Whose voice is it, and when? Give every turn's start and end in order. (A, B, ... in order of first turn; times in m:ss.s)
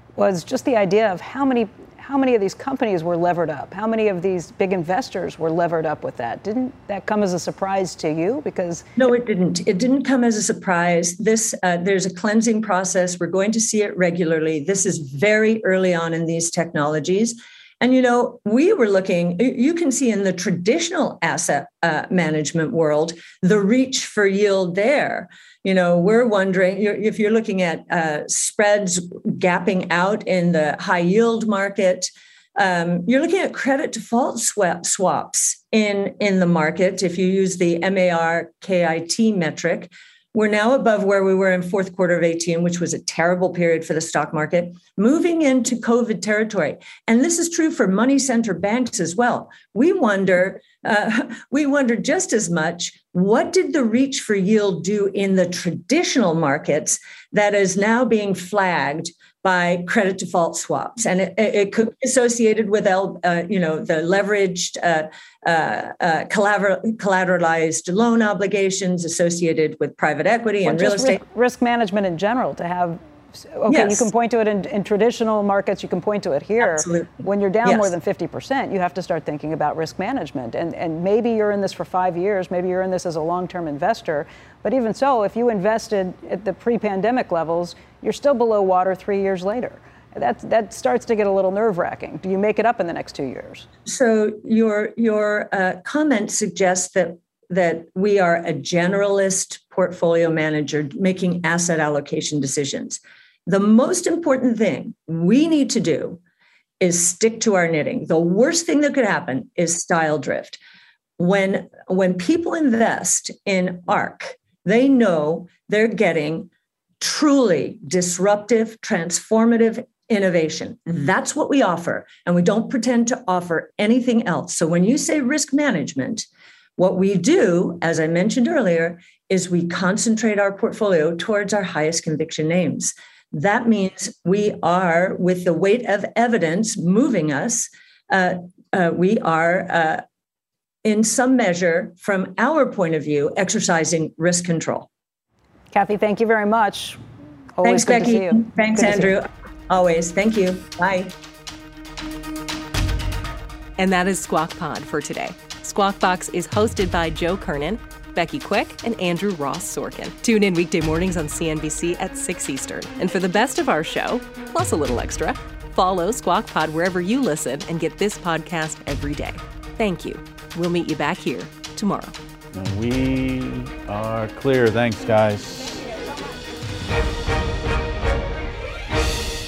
0:00.2-0:08.9 A
0:09.0-1:11.2 B
1:10.6-1:33.6 A
1:13.7-1:14.1 B
1:16.6-1:17.9 B
1:33.9-1:46.2 B
1:46.8-1:50.6 B
1:51.2-1:56.5 B
1:57.0-2:20.0 B
2:20.8-2:24.9 B
2:25.7-2:27.0 A
2:27.6-2:29.2 A
2:27.6-2:31.1 B
2:33.8-2:52.1 C
2:52.5-2:55.8 D